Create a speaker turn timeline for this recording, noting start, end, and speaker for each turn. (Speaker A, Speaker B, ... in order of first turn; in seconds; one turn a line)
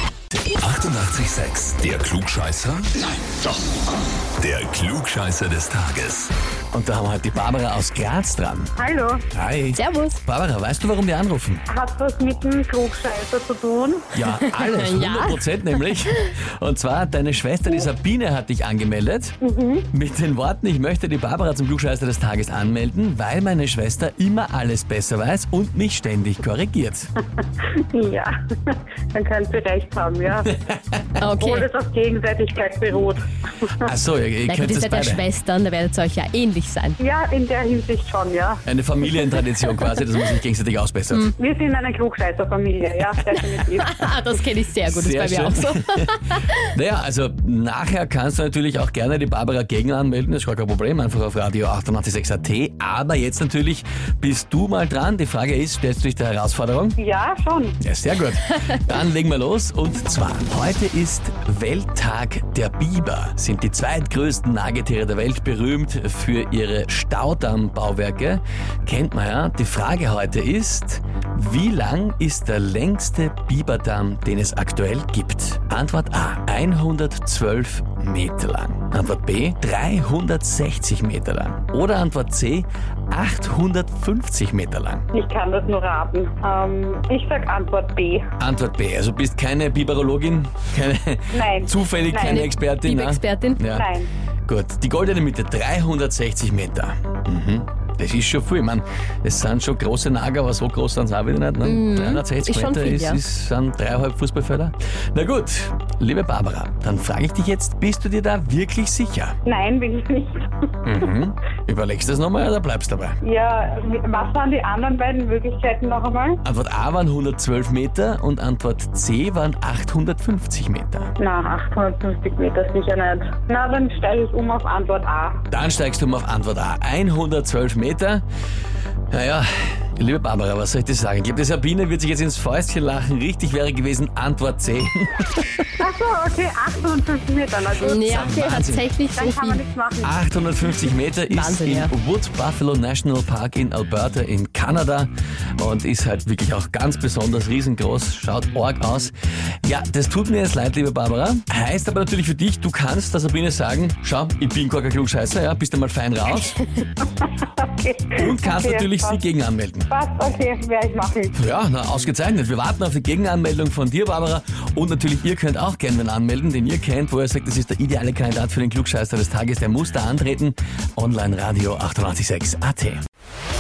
Speaker A: 0.6-2.9
Speaker A: 4.4-6.3
Speaker B: 6.7-8.7
Speaker C: 8.8-9.2
Speaker B: 9.3-11.6
Speaker D: 9.8-10.2
Speaker C: 11.7-14.1
Speaker B: 14.1-19.4
Speaker D: 14.4-16.0
Speaker C: 19.4-19.9
Speaker B: 19.9-27.1
Speaker C: 27.7-30.5
Speaker D: 31.2-31.7
Speaker C: 31.4-33.9
Speaker B: 33.8-35.2
Speaker D: 34.5-37.0
Speaker C: 37.0-38.6
Speaker B: 38.6-41.3
Speaker C: 41.4-44.0
Speaker D: 43.3-46.6
Speaker B: 44.9-46.1
Speaker B: 46.7-57.0
Speaker C: 57.0-57.8
Speaker B: 57.8-85.1
Speaker C: 85.1-88.3
Speaker B: 88.4-93.9
Speaker C: 91.3-92.5
Speaker D: 92.2-93.6
Speaker C: 93.7-94.1
Speaker B: 94.5-109.4
Speaker D: 101.6-103.2
Speaker C: 109.5-110.5
Speaker B: 110.8-113.2
Speaker C: 113.2-116.4
Speaker B: 116.4-121.1
Speaker C: 121.2-125.4
Speaker B: 125.5-128.2
Speaker B: 129.1-135.7
Speaker C: 135.8-138.2
Speaker D: 137.8-139.6
Speaker B: 138.0-138.8
Speaker C: 139.1-140.2
Speaker B: 140.0-156.6
Speaker D: 141.3-141.9
Speaker C: 157.2-159.2
Speaker B: 158.2-159.9
Speaker C: 159.9-161.3
Speaker B: 161.3-173.0